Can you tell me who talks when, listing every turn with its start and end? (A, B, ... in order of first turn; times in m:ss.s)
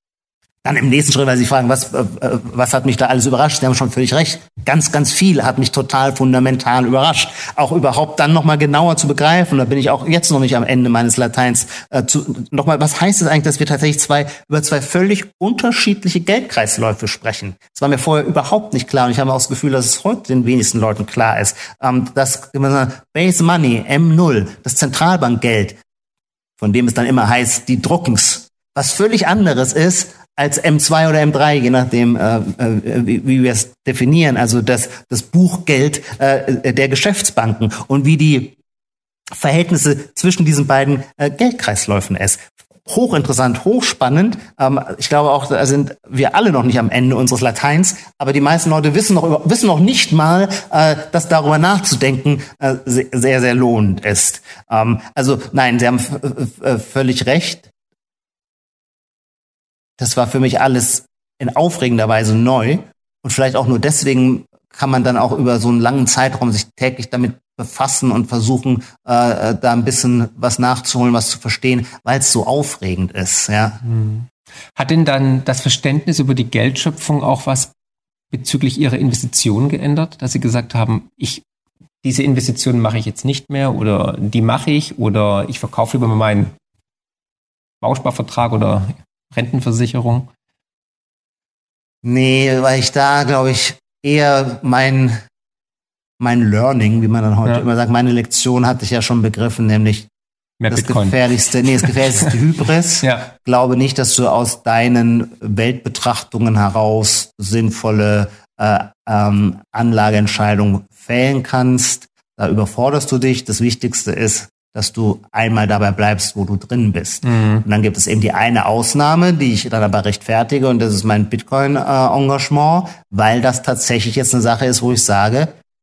0:00.6-0:25.8 A
0:26.6-0:38.6 A
0:39.3-0:57.7 A
1:00.0-1:13.8 A
1:13.8-1:17.7 B
1:18.3-1:21.4 B
1:22.0-1:26.5 B
1:27.8-1:30.3 B
1:32.0-1:35.2 A
1:36.2-1:40.1 A
1:40.6-1:41.2 B
1:40.7-2:05.5 A
1:41.8-1:42.3 B
1:43.0-1:43.3 B
1:57.2-1:57.6 B